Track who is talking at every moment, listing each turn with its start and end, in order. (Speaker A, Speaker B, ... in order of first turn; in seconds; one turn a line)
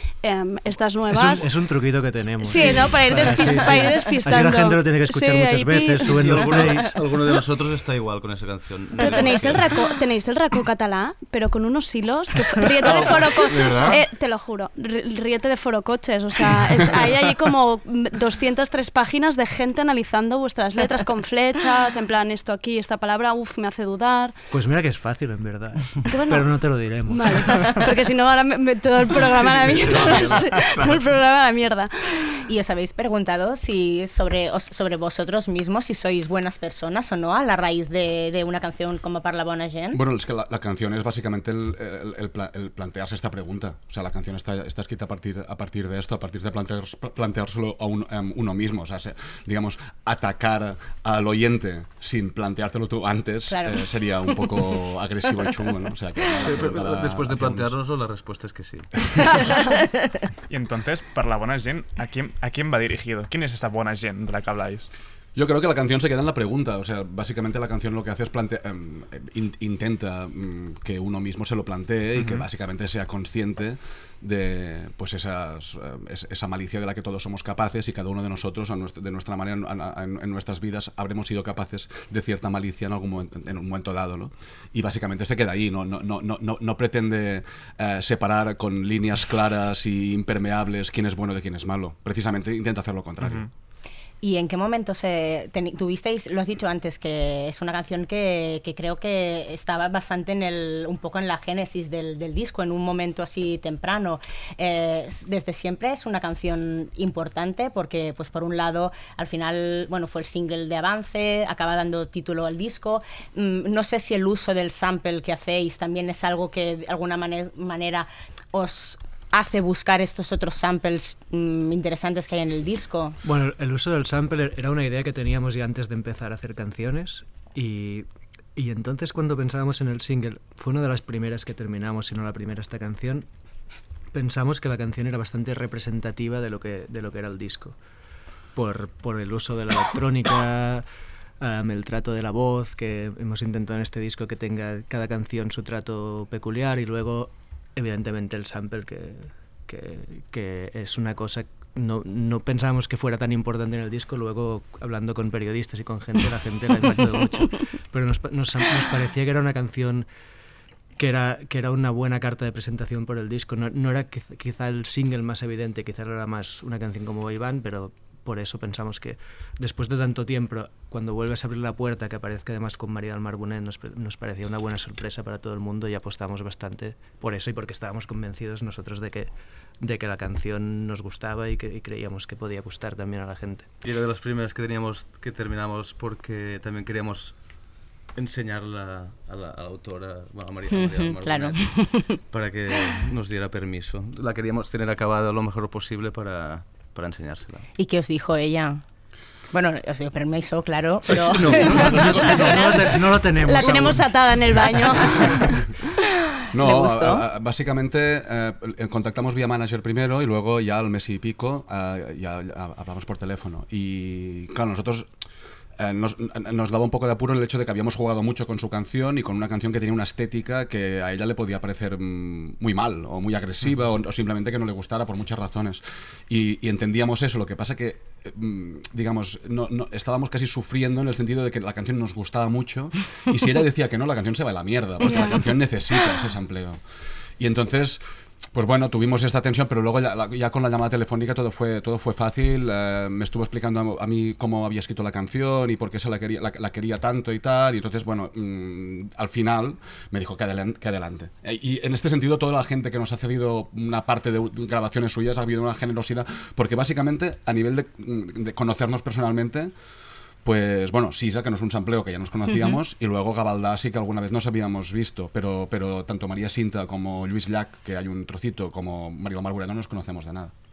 Speaker A: 0.2-1.4
Speaker B: 1.1-6.9
Speaker A: 2.4-6.2
Speaker C: 6.1-9.8
Speaker A: 9.0-24.4
Speaker C: 12.8-14.0
Speaker B: 24.5-27.8
Speaker A: 26.1-26.4
Speaker A: 27.1-32.2
Speaker C: 29.5-30.9
Speaker D: 32.5-40.0
Speaker E: 39.9-57.7
Speaker D: 53.5-53.8
Speaker C: 56.5-59.3
Speaker F: 60.5-64.9
Speaker E: 65.4-93.5
Speaker D: 94.2-123.2
Speaker B: 123.2-133.3
Speaker B: 134.1-137.8
Speaker B: 138.5-140.8
Speaker B: 141.4-160.1
Speaker B: 161.0-183.7
Speaker C: 183.8-187.4
Speaker C: 188.2-197.7
Speaker D: 190.7-192.2
Speaker D: 197.8-198.8
Speaker D: 199.5-202.9
Speaker B: 201.1-205.4
Speaker A: 203.4-205.5
Speaker E: 206.6-215.1
Speaker D: 206.6-207.2
Speaker E: 215.8-236.8
Speaker D: 235.1-235.4
Speaker E: 237.4-238.0
Speaker E: 238.5-259.7
Speaker E: 260.4-270.5
Speaker D: 262.5-262.8